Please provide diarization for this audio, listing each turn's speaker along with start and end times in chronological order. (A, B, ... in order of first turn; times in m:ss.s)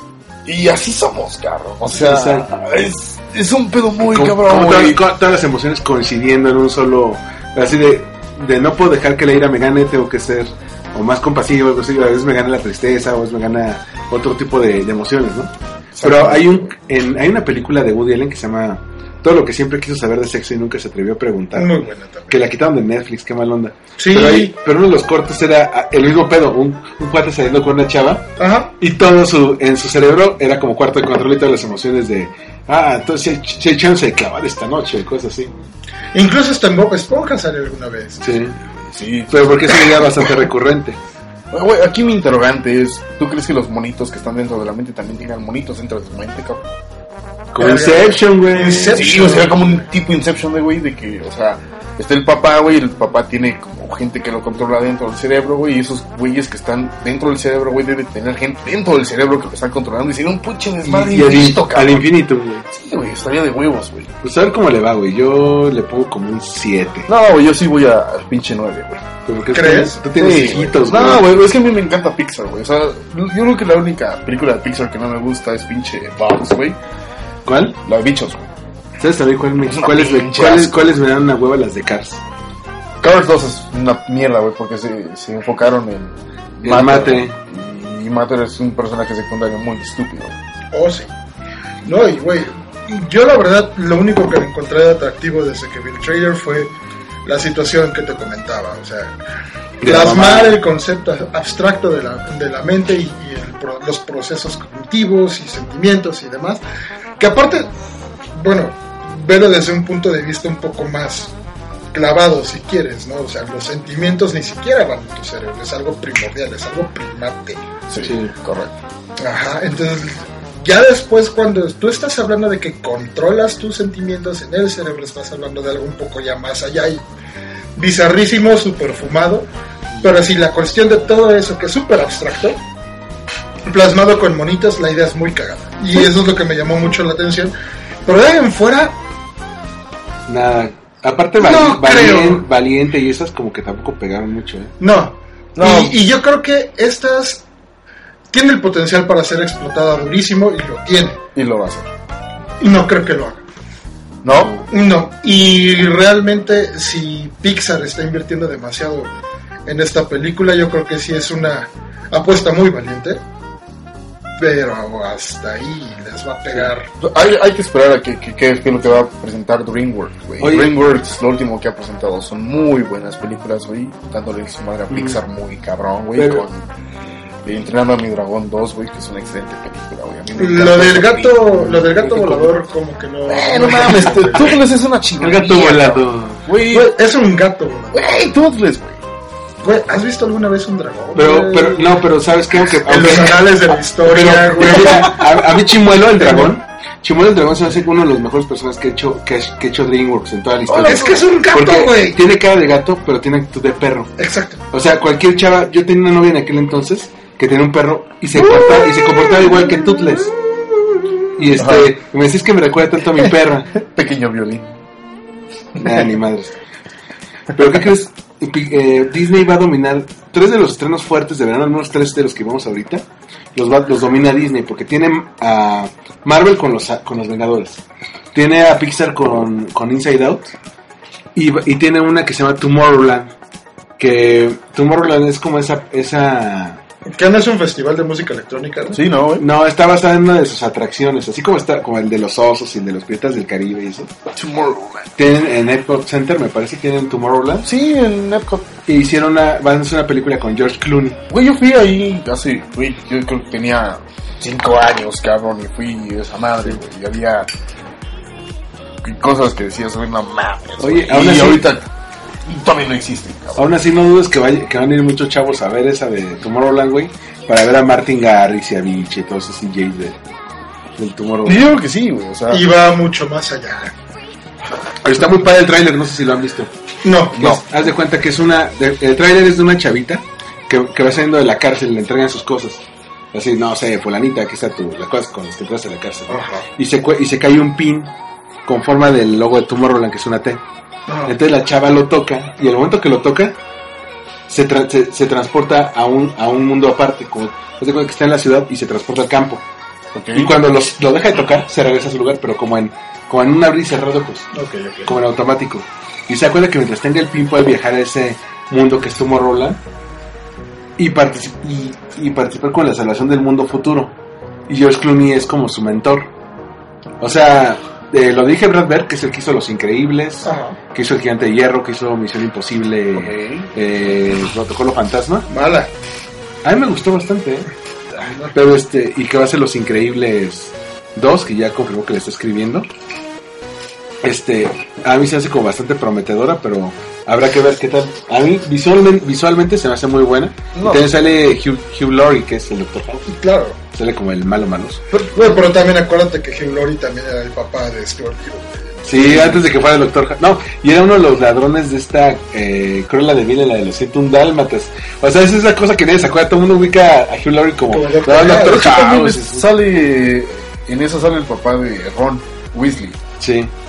0:00.4-0:05.0 A
0:01.9-0:02.5 B
0:04.1-0:21.7 B
0:15.9-0:16.7 A
0:21.5-0:22.3 C
0:22.3-0:28.2 B
0:24.0-0:24.5 C
0:28.4-0:28.7 C
0:28.8-0:35.5 B
0:36.1-0:38.2 C
0:38.2-0:38.6 B
0:38.9-0:40.3 A
0:39.3-0:41.0 B
0:41.5-0:46.7 A
0:47.5-0:49.4 B
0:47.6-0:49.7 C
0:48.9-1:02.1 A
1:00.8-1:02.7 B
1:02.7-1:04.1 A
1:04.2-1:07.1 B
1:07.1-1:09.0 A
1:09.2-1:11.3 B
1:09.5-1:10.0 C
1:10.0-1:16.8 A
1:17.4-1:17.8 B
1:17.8-1:18.5 A
1:19.0-1:22.2 B
1:19.7-1:20.9 A
1:23.0-1:30.4 A
1:26.6-1:27.3 B
1:30.7-1:31.1 C
1:31.8-1:36.7 C
1:37.2-1:39.2 C
1:39.8-1:40.6 B
1:39.8-1:46.6 C
1:47.2-1:47.7 C
1:48.3-1:51.3 C
1:51.9-1:57.6 C
1:57.9-1:58.8 A
1:58.0-1:58.3 B
1:59.2-2:07.0 C
2:07.8-2:09.5 C
2:10.0-2:12.6 C
2:13.7-2:19.0 C
2:20.3-2:24.7 B
2:21.4-2:22.4 C
2:24.8-2:27.4 C
2:25.6-2:26.0 A
2:28.3-2:31.2 C
2:31.3-2:31.9 A
2:32.6-2:33.4 C
2:34.2-2:34.6 A
2:34.3-2:34.6 B
2:34.7-2:39.1 C
2:39.6-2:43.2 C
2:44.4-2:46.9 C
2:47.0-2:56.7 A
2:50.4-2:50.7 B
2:54.9-2:55.2 B
2:56.2-2:56.4 B
2:57.4-3:01.7 A
3:00.4-3:04.5 C
3:01.6-3:02.5 B
3:03.3-3:06.9 A
3:03.7-3:04.5 B
3:05.2-3:06.4 B
3:06.7-3:08.3 C
3:07.9-3:09.0 A
3:09.6-3:11.9 C
3:11.1-3:13.5 B
3:12.7-3:15.2 C
3:14.0-3:24.1 B
3:14.6-3:15.2 A
3:16.1-3:16.5 C
3:20.7-3:21.3 A
3:20.8-3:22.2 C
3:24.2-3:24.6 C
3:24.7-3:30.3 B
3:28.3-3:30.2 A
3:31.4-3:33.7 B
3:31.6-3:31.9 A
3:33.7-3:34.7 A
3:35.8-3:36.0 A
3:35.8-3:36.6 B
3:37.5-3:47.8 B
3:48.3-3:50.5 B
3:51.3-3:53.3 B
3:54.0-3:56.8 B
3:57.1-3:59.0 C
3:58.9-3:59.5 A
3:59.4-4:04.1 B
4:04.3-4:05.1 A
4:05.2-4:07.7 B
4:07.6-4:08.7 A
4:08.8-4:11.2 B
4:11.3-4:17.5 A
4:19.0-4:21.9 A
4:20.8-4:21.7 B
4:22.5-4:23.7 A
4:23.6-4:30.2 B
4:31.0-4:31.6 B
4:31.4-4:32.6 A
4:32.5-4:33.9 C
4:35.0-4:36.7 B
4:37.0-4:37.5 C
4:37.3-4:37.6 A
4:37.4-4:48.1 B
4:46.3-4:46.6 C
4:48.6-4:50.6 B
4:51.1-4:51.3 C
4:51.2-4:53.5 B
4:54.5-4:59.6 B
5:00.1-5:00.5 A
5:00.3-5:04.5 B
5:04.5-5:05.1 C
5:05.0-5:09.8 B
5:11.0-5:14.1 B
5:14.7-5:16.3 B
5:17.2-5:25.5 B
5:20.4-5:20.8 C
5:23.1-5:23.7 A
5:25.5-5:25.9 C
5:26.6-5:27.7 B
5:28.2-5:28.5 C
5:28.5-5:32.9 B
5:34.2-5:43.2 B
5:40.7-5:41.1 A
5:43.3-5:43.8 C
5:43.9-5:45.0 B
5:45.1-5:45.5 A
5:45.3-5:49.4 C
5:49.0-5:59.7 B
5:49.2-5:49.6 A
5:57.9-5:58.9 C
5:58.4-6:03.2 A
6:03.4-6:03.7 B